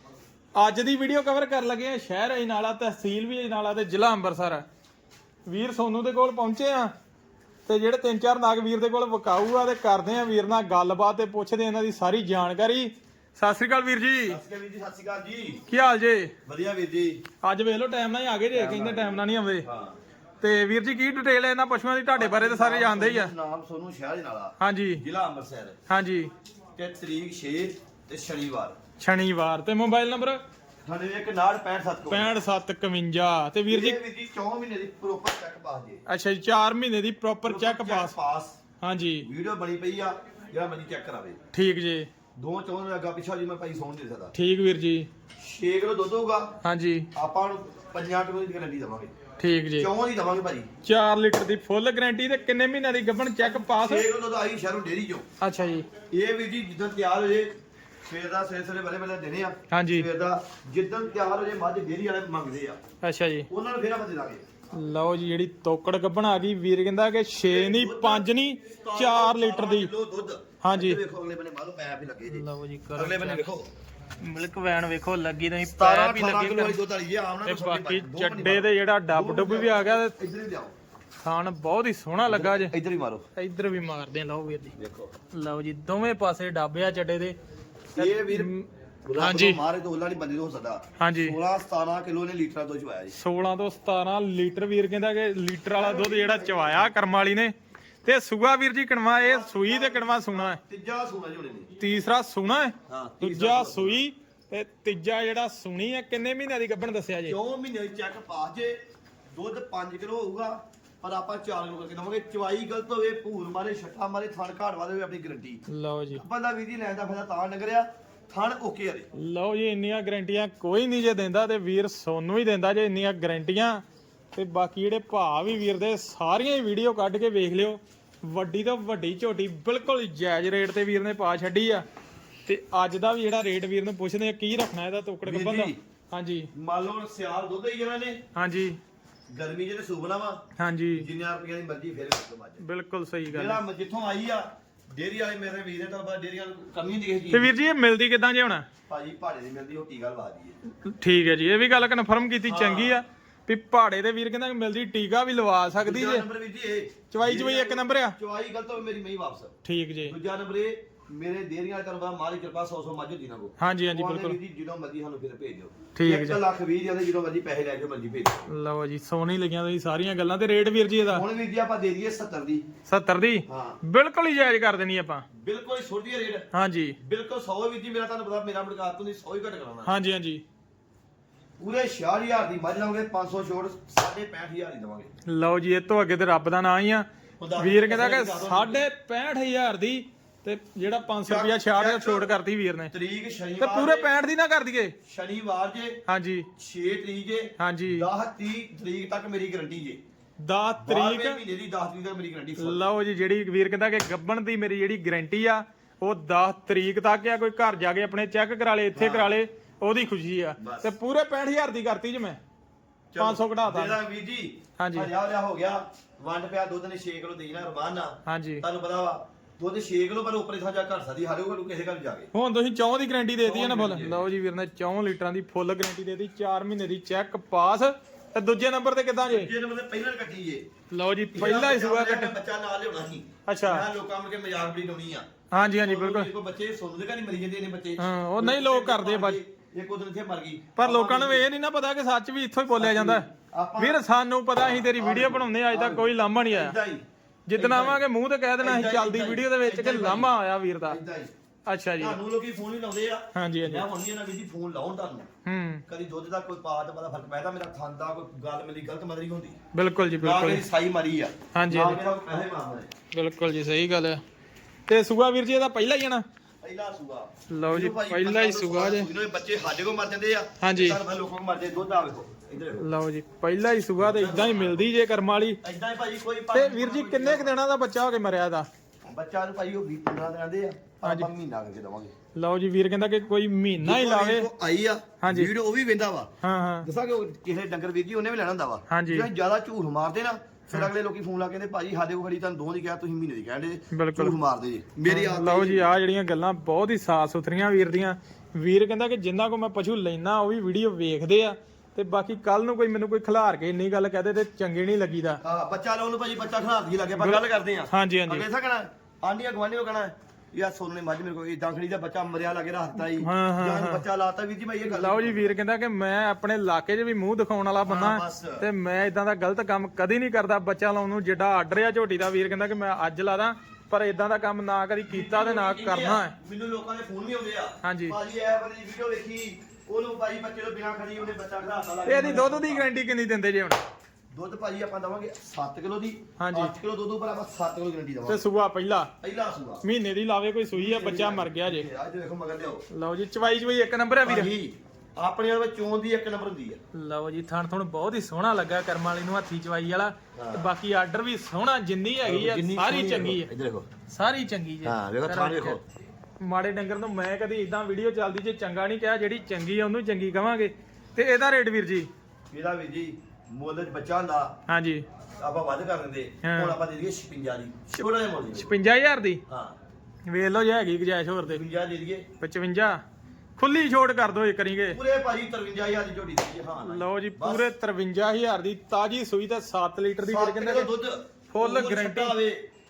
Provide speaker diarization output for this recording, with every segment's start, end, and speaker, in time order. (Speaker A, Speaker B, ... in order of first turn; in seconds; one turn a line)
Speaker A: 0.6-4.6
Speaker A: 5.5-6.9
Speaker A: 7.7-14.4
Speaker B: 14.3-15.6
Speaker A: 15.7-16.3
Speaker B: 16.5-17.2
Speaker A: 17.4-19.7
Speaker B: 18.5-20.0
Speaker A: 20.4-23.3
Speaker B: 22.1-25.8
Speaker A: 24.6-25.0
Speaker A: 25.9-26.3
Speaker B: 26.8-28.8
Speaker A: 29.0-30.4
Speaker B: 30.9-32.3
Speaker A: 32.1-34.0
Speaker B: 33.7-36.0
Speaker A: 36.1-38.1
Speaker B: 37.5-38.6
Speaker A: 38.8-39.3
Speaker B: 39.2-41.4
Speaker A: 41.5-42.1
Speaker B: 42.4-44.4
Speaker A: 44.3-45.1
Speaker B: 45.4-46.6
Speaker A: 46.6-47.1
Speaker B: 47.1-49.1
Speaker A: 49.4-49.9
Speaker B: 49.8-50.7
Speaker A: 50.8-54.1
Speaker B: 53.4-55.3
Speaker A: 55.4-55.9
Speaker B: 56.1-57.5
Speaker B: 58.1-62.8
Speaker A: 59.7-60.1
Speaker A: 63.0-63.5
Speaker B: 63.5-64.4
Speaker A: 64.7-69.9
Speaker B: 67.4-73.7
Speaker A: 70.6-71.0
Speaker A: 72.3-73.5
Speaker A: 74.2-76.8
Speaker B: 75.6-80.7
Speaker A: 77.4-80.1
Speaker A: 81.2-82.7
Speaker B: 82.3-83.3
Speaker A: 83.4-84.8
Speaker B: 84.8-85.1
Speaker A: 85.3-87.4
Speaker B: 87.9-88.5
Speaker A: 88.0-88.7
Speaker B: 89.0-93.2
Speaker A: 89.2-89.6
Speaker A: 91.0-91.4
Speaker A: 93.1-100.6
Speaker B: 95.7-97.0
Speaker B: 99.2-101.7
Speaker A: 101.8-107.4
Speaker B: 102.9-104.0
Speaker B: 107.3-108.8
Speaker B: 109.3-115.6
Speaker A: 115.7-116.2
Speaker B: 116.2-119.1
Speaker A: 119.2-131.8
Speaker A: 132.5-136.5
Speaker B: 135.2-135.8
Speaker B: 136.5-138.2
Speaker A: 138.3-138.8
Speaker B: 139.3-140.4
Speaker A: 140.6-141.1
Speaker B: 140.9-142.6
Speaker A: 142.6-143.6
Speaker B: 143.3-147.5
Speaker A: 147.3-148.7
Speaker B: 148.9-150.6
Speaker A: 150.8-156.2
Speaker B: 152.4-153.0
Speaker B: 155.8-159.6
Speaker A: 157.1-158.2
Speaker A: 159.6-160.1
Speaker B: 160.1-168.5
Speaker A: 163.6-164.4
Speaker A: 165.9-166.4
Speaker A: 168.5-171.2
Speaker B: 171.1-172.7
Speaker A: 172.9-175.2
Speaker B: 173.5-173.8
Speaker B: 175.3-176.5
Speaker A: 176.5-177.0
Speaker B: 177.0-179.9
Speaker A: 179.8-180.4
Speaker B: 181.6-185.1
Speaker A: 185.3-192.9
Speaker B: 187.4-188.9
Speaker B: 191.3-192.3
Speaker B: 192.9-194.2
Speaker A: 193.6-194.9
Speaker B: 195.1-196.0
Speaker A: 196.1-196.5
Speaker B: 196.6-200.0
Speaker A: 197.6-198.1
Speaker A: 200.4-201.4
Speaker B: 200.8-202.9
Speaker A: 202.6-212.4
Speaker B: 208.9-209.4
Speaker B: 210.6-210.9
Speaker B: 213.1-222.3
Speaker A: 213.2-214.0
Speaker A: 214.8-215.1
Speaker A: 218.3-218.6
Speaker A: 222.3-229.5
Speaker B: 223.4-224.3
Speaker B: 229.3-230.7
Speaker A: 230.9-232.3
Speaker B: 231.3-235.3
Speaker A: 233.5-233.9
Speaker A: 235.5-236.3
Speaker B: 235.8-241.5
Speaker A: 238.0-239.4
Speaker A: 240.8-243.3
Speaker B: 242.8-244.0
Speaker A: 243.8-246.8
Speaker B: 244.6-247.0
Speaker A: 247.5-251.0
Speaker B: 247.6-248.0
Speaker B: 248.6-251.3
Speaker A: 251.7-252.2
Speaker B: 252.0-255.3
Speaker A: 253.3-253.8
Speaker A: 255.4-255.8
Speaker B: 255.9-259.6
Speaker A: 259.7-260.6
Speaker B: 260.2-262.9
Speaker A: 261.5-262.0
Speaker A: 263.1-264.2
Speaker A: 264.9-266.2
Speaker B: 266.6-272.9
Speaker A: 267.5-269.1
Speaker A: 270.6-271.0
Speaker A: 272.8-275.6
Speaker B: 274.0-274.9
Speaker B: 275.6-277.5
Speaker A: 276.5-278.7
Speaker B: 279.1-282.1
Speaker A: 281.0-281.3
Speaker A: 282.4-284.5
Speaker B: 283.8-286.3
Speaker A: 285.2-285.5
Speaker A: 286.4-286.9
Speaker B: 286.8-295.9
Speaker A: 288.9-289.3
Speaker A: 293.9-294.4
Speaker A: 295.1-305.4
Speaker B: 305.4-315.6
Speaker A: 307.2-308.4
Speaker A: 313.0-314.0
Speaker A: 314.9-326.4
Speaker B: 317.9-318.6
Speaker B: 325.1-332.9
Speaker A: 327.8-328.2
Speaker A: 332.1-333.8
Speaker B: 334.3-338.4
Speaker A: 336.4-336.7
Speaker A: 338.3-339.1
Speaker B: 339.2-339.9
Speaker A: 339.8-341.9
Speaker B: 340.7-342.9
Speaker A: 342.9-344.5
Speaker B: 344.2-346.8
Speaker A: 346.9-353.5
Speaker B: 350.4-350.7
Speaker B: 352.2-353.9
Speaker A: 354.1-355.8
Speaker B: 354.8-355.8
Speaker A: 356.4-362.1
Speaker B: 362.5-364.6
Speaker A: 364.7-365.1
Speaker B: 365.4-368.8
Speaker A: 366.4-366.8
Speaker A: 368.0-369.4
Speaker B: 369.5-369.8
Speaker A: 370.3-371.6
Speaker B: 371.4-372.3
Speaker A: 372.4-373.0
Speaker A: 373.6-375.0
Speaker B: 374.9-377.7
Speaker A: 376.9-380.9
Speaker B: 380.2-382.7
Speaker A: 381.5-382.4